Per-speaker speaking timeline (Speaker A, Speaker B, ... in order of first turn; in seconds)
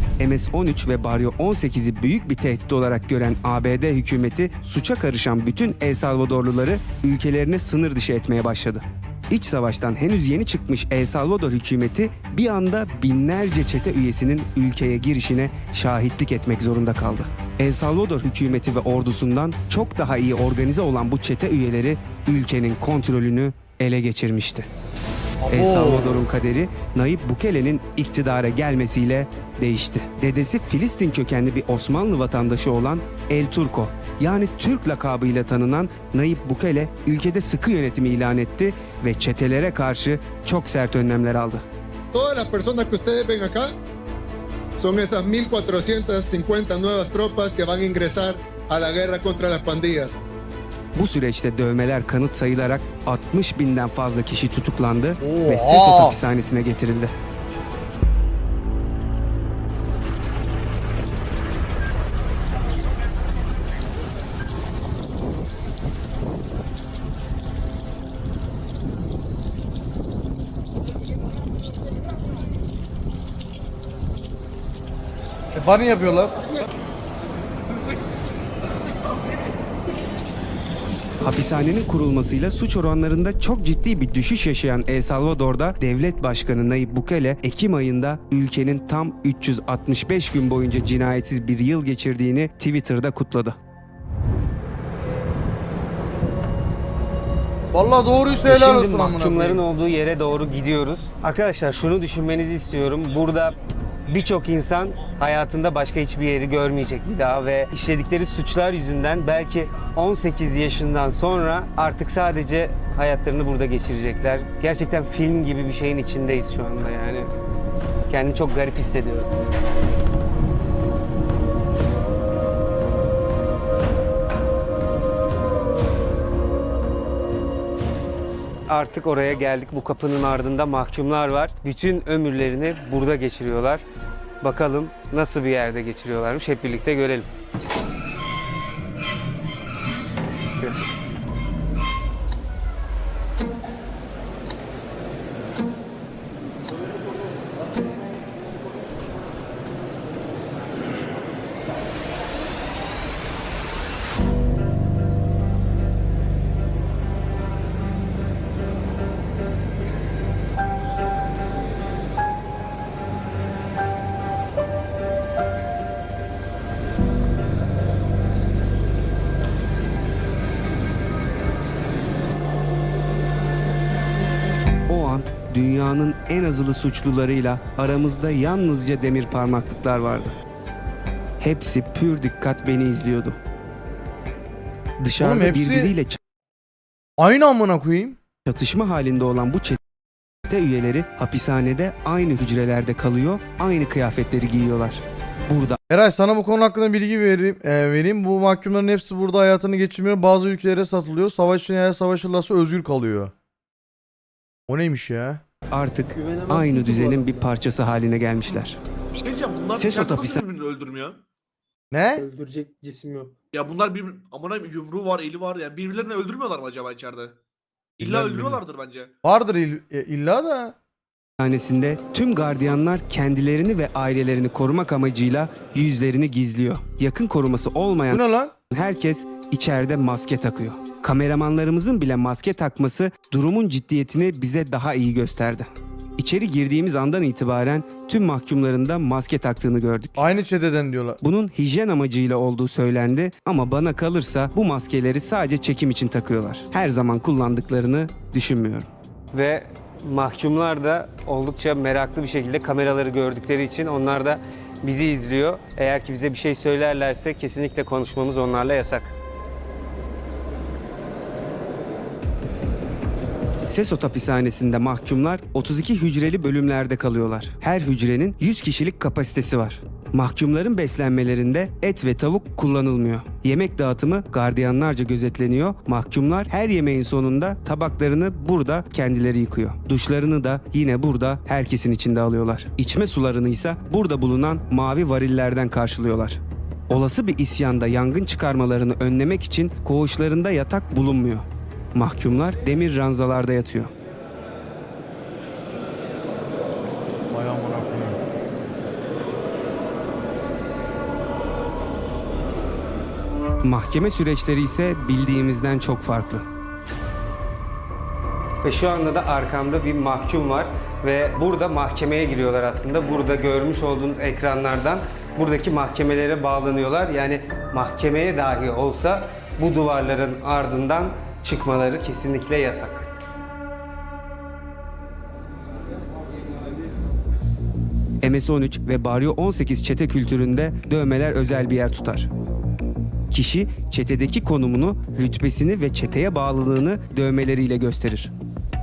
Speaker A: 0.2-24.7, 25.5-41.6, 51.0-57.1, 81.2-93.6, 98.5-117.3, 118.1-119.3, 128.7-133.8, 134.4-137.3, 140.6-141.0, 174.9-180.3, 181.4-183.4, 185.0-186.2, 188.5-189.8, 190.5-195.8, 205.7-208.8, 209.8-210.4, 221.4-240.2, 241.2-259.1, 263.7-293.9, 303.6-306.4, 308.6-323.1, 328.2-332.3, 333.3-338.3
Speaker B: 25.4-26.2, 55.2-56.2, 75.5-76.3, 97.7-99.6, 185.2-185.9, 187.2-188.2, 195.9-203.3, 204.7-205.4, 211.9-212.2, 218.0-218.6, 219.2-220.8, 228.1-228.5, 240.2-241.2, 297.3-298.2
Speaker C: 42.1-43.7, 44.8-50.2
Speaker D: 206.1-207.5, 212.2-213.4
Speaker E: 209.2-211.2, 213.5-217.4, 218.0-219.1